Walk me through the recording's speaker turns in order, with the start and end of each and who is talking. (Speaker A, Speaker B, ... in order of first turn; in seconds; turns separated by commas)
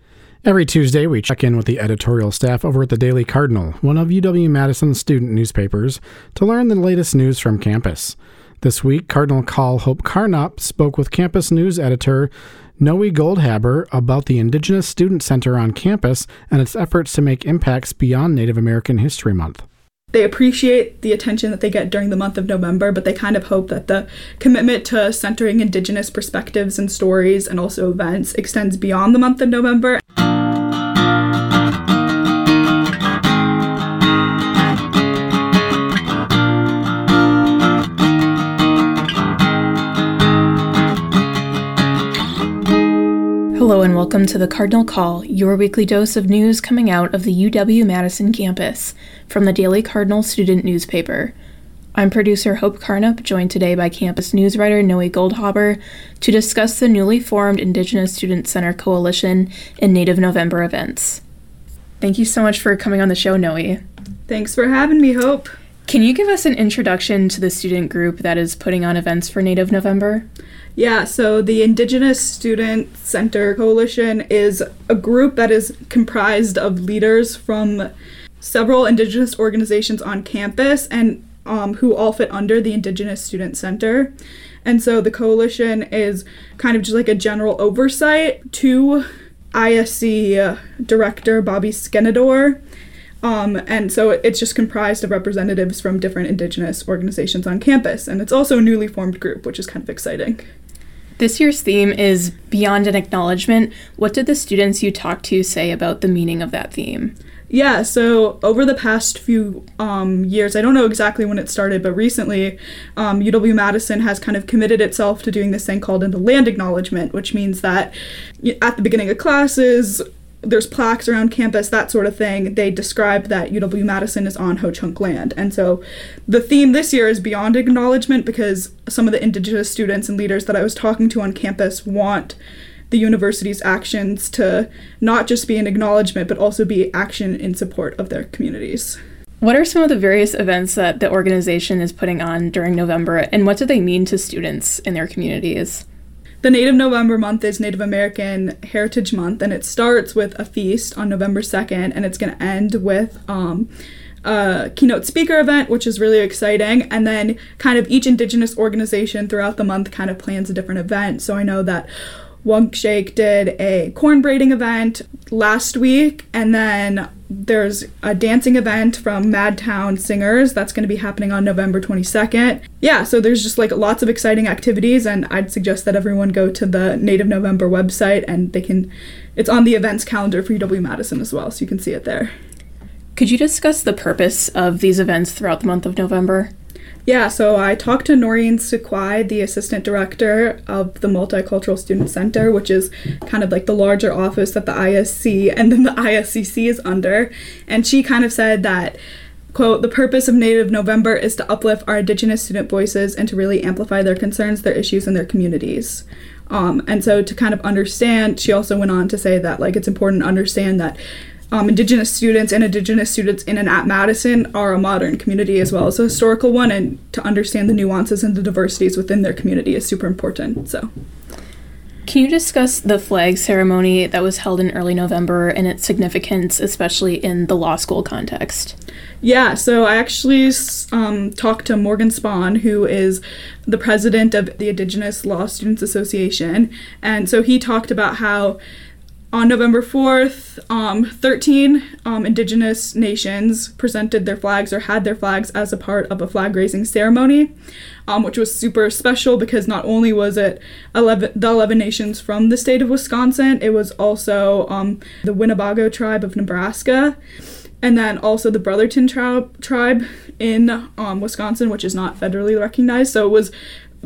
Speaker A: 0.4-19.6, Speaker B: 20.1-30.0, Speaker C: 43.5-51.3, Speaker C: 51.9-61.2, Speaker C: 62.0-63.8, Speaker B: 64.3-65.5, Speaker C: 65.9-70.3, Speaker B: 70.8-77.9, Speaker B: 78.4-84.1, Speaker B: 84.6-92.6, Speaker B: 93.2-100.5, Speaker C: 101.2-107.1, Speaker B: 107.5-132.3, Speaker B: 132.9-139.0, Speaker C: 139.4-145.8, Speaker B: 146.4-153.7, Speaker B: 154.2-161.9, Speaker B: 162.4-182.3, Speaker C: 183.2-186.5, Speaker B: 187.1-199.0, Speaker B: 199.5-211.0, Speaker B: 211.5-220.9, Speaker C: 222.1-228.7, Speaker B: 229.2-238.6, Speaker B: 239.3-247.5, Speaker B: 248.1-257.2, Speaker B: 257.8-263.5